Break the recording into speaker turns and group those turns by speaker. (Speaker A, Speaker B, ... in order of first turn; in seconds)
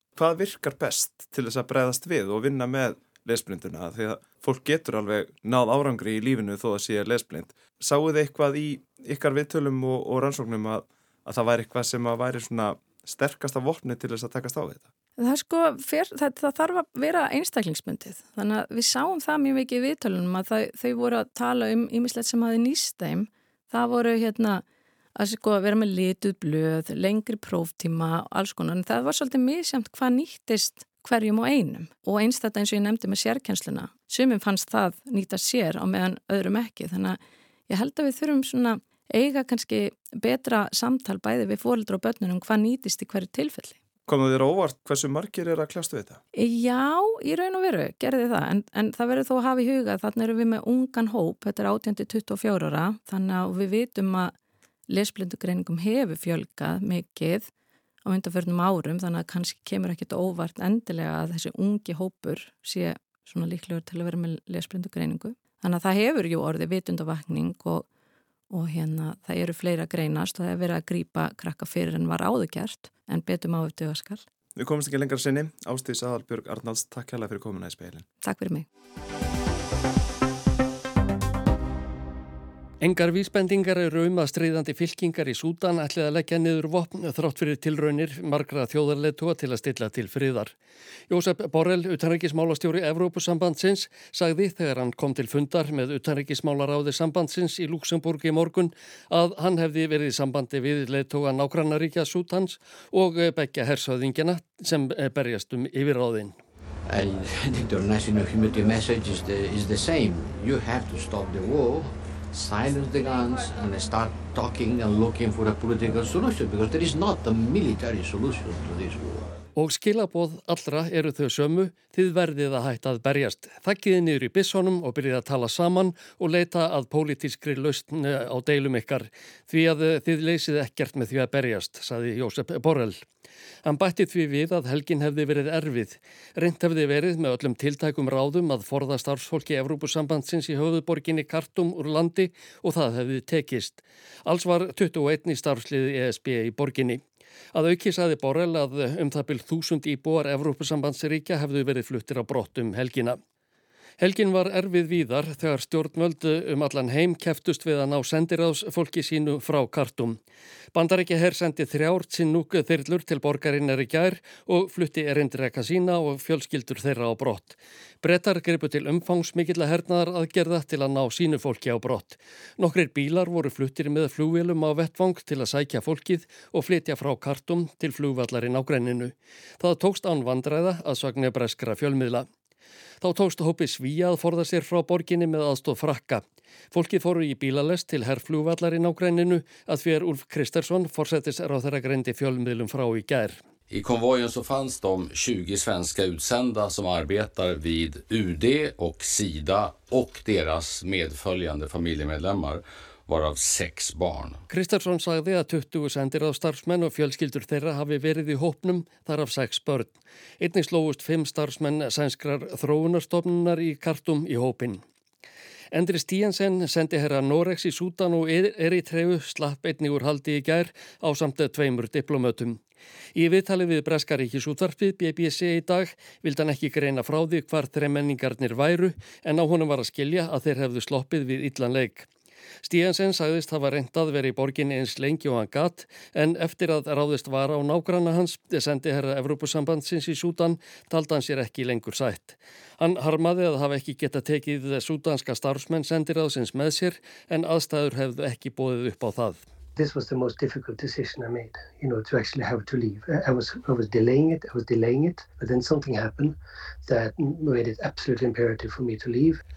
Speaker A: 0.1-14.8, 44.1-46.2, 74.5-78.0
Speaker B: 15.2-24.6, 25.1-43.8, 46.3-54.3, 54.9-57.5, 58.0-67.8, 68.5-74.2, 78.2-78.7
Speaker C: 82.8-90.5, 91.1-106.3, 119.5-133.0, 133.6-147.0, 147.5-153.2, 154.0-160.2, 160.7-182.3, 183.0-193.4, 204.5-214.8, 215.7-222.6, 223.2-232.1, 232.6-249.4
Speaker D: 106.9-119.3
Speaker E: 193.7-204.4
Speaker F: 249.8-259.4